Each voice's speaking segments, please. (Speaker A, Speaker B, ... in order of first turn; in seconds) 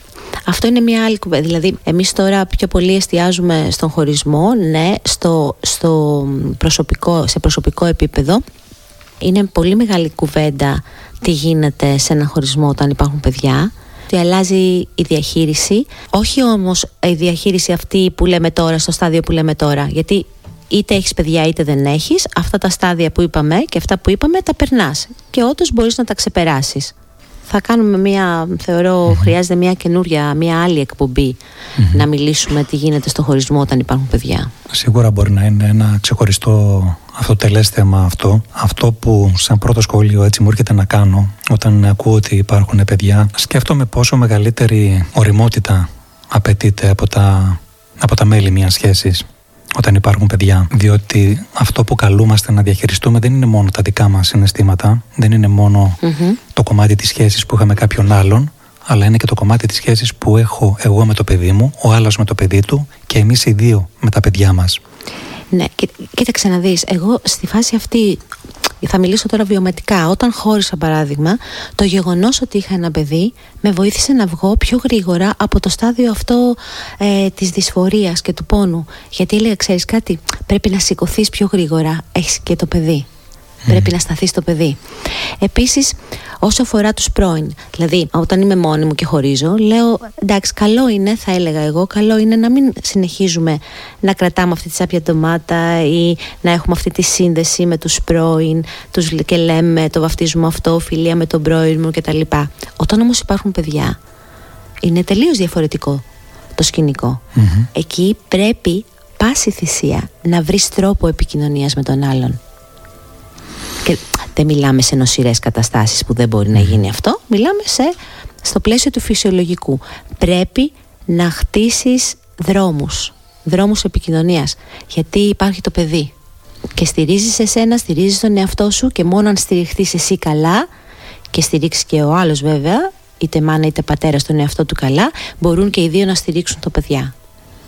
Speaker A: 0.5-8.4, 9.2-26.9, 27.5-31.4, 31.9-34.5, 56.0-56.4, 65.5-68.2, 68.8-83.1, 83.7-104.0, 104.8-106.0, 106.6-107.2, 107.7-112.4, 113.8-126.1, 126.8-130.7, 131.3-137.1
Speaker B: 29.1-29.3, 31.8-32.0, 34.7-56.0, 56.5-64.8, 107.3-107.7, 116.5-116.8